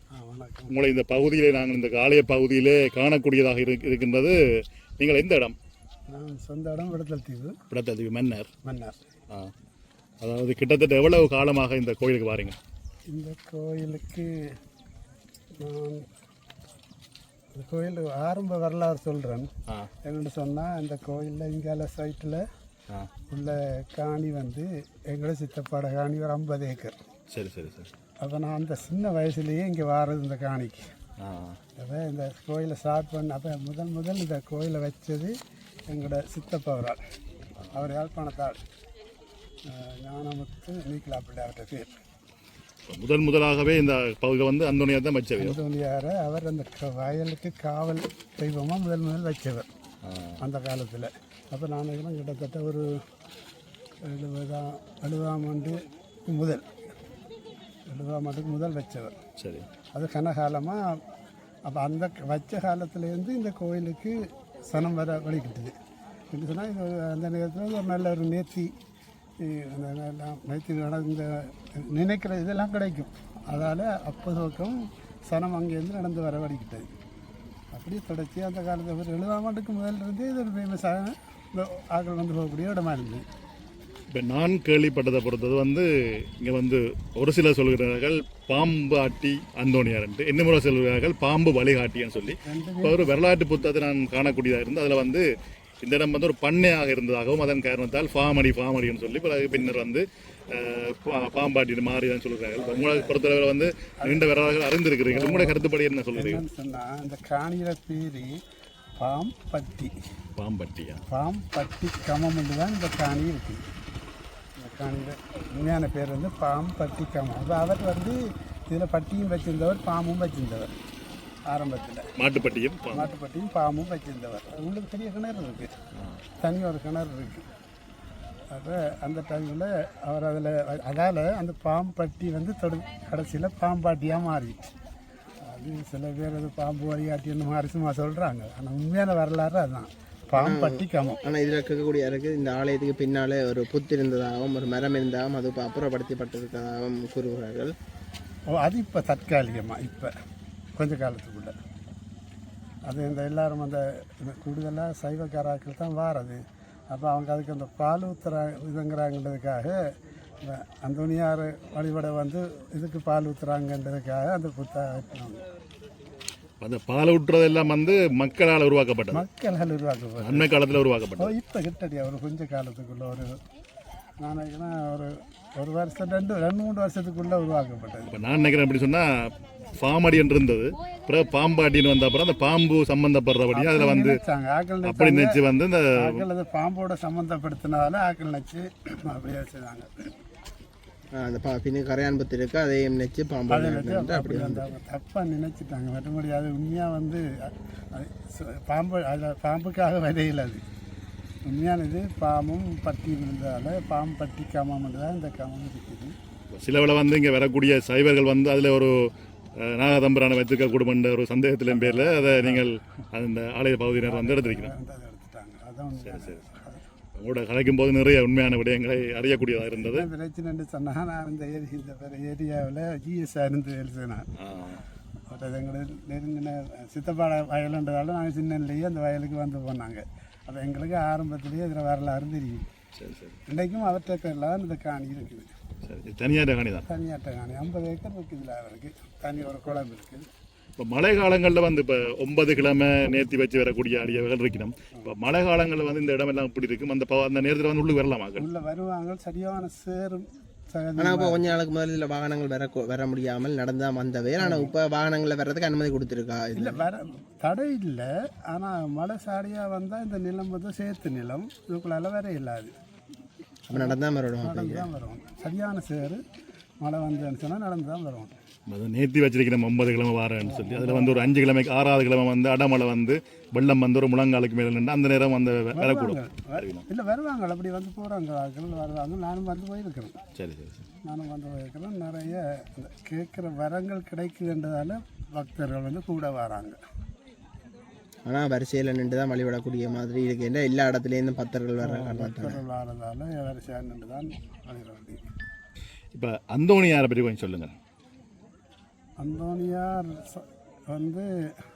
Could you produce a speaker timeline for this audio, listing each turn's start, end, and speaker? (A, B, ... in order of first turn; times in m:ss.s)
0:00.1-0:00.8 A
0:00.7-0:04.3 B
0:05.0-0:05.5 B
0:06.1-0:07.6 A
0:07.7-0:08.5 B
0:08.6-0:09.0 A
0:10.2-0:12.6 B
0:13.1-0:14.5 A
0:15.6-0:16.1 A
0:17.5-0:19.5 A
0:20.0-0:22.4 A
0:23.3-0:27.0 A
0:27.3-0:27.9 B
0:28.2-0:30.9 A
0:31.2-0:31.6 B
0:31.8-0:35.4 A
0:35.9-0:37.0 A
0:37.6-0:37.9 B
0:37.7-0:38.6 A
0:39.6-0:41.9 A
0:42.9-0:45.6 B
0:45.4-0:49.7 A
0:50.0-0:50.4 B
0:50.4-0:53.0 A
0:54.0-0:56.7 A
0:57.9-0:59.2 A
0:59.4-0:59.6 B
0:59.9-1:01.0 A
1:01.6-1:05.7 A
1:06.3-1:08.7 A
1:09.4-1:16.9 A
1:17.7-1:23.2 A
1:24.1-1:35.2 B
1:32.4-1:33.1 A
1:35.8-1:46.4 B
1:44.0-1:44.3 A
1:45.1-1:45.6 A
1:46.1-1:48.4 A
1:49.0-1:49.9 A
1:50.4-1:51.0 B
1:51.1-1:53.6 A
1:54.6-2:00.7 A
2:01.5-2:02.1 A
2:02.2-2:03.1 B
2:02.9-2:05.7 A
2:06.0-2:06.2 B
2:06.4-2:07.5 A
2:08.5-2:14.7 A
2:15.4-2:21.2 A
2:20.4-2:27.7 C
2:28.5-2:30.1 A
2:30.8-2:31.5 A
2:32.9-2:39.8 A
2:40.4-2:45.4 A
2:46.6-2:49.2 B
2:49.1-2:50.5 A
2:50.2-2:51.3 B
2:51.2-2:53.4 A
2:54.2-2:58.1 A
2:58.1-3:04.2 B
3:03.5-3:05.4 A
3:04.8-3:06.2 B
3:05.9-3:10.1 A
3:11.1-3:14.7 C
3:13.5-3:20.6 A
3:21.4-3:26.2 A
3:26.5-3:28.9 B
3:29.6-3:34.7 B
3:31.7-3:32.7 A
3:34.0-3:36.9 A
3:36.0-3:36.5 B
3:37.2-3:40.1 B
3:39.8-3:44.3 A
3:44.4-3:44.8 B
3:45.3-3:52.7 A
3:53.0-3:53.4 B
3:53.5-3:55.5 A
3:55.8-3:56.8 B
3:56.9-4:00.3 A
4:00.8-4:08.5 B
4:08.4-4:11.5 A
4:11.0-4:16.8 C
4:14.4-4:14.7 A
4:16.5-4:22.7 A
4:23.7-4:24.9 C
4:23.7-4:26.2 A
4:26.8-4:28.4 A
4:28.7-4:36.8 B
4:30.4-4:31.3 A
4:35.7-4:40.2 A
4:40.4-4:40.8 B
4:41.0-4:46.8 A
4:48.2-4:52.6 C
4:51.8-4:55.3 A
4:56.1-4:57.7 B
4:59.2-5:01.3 A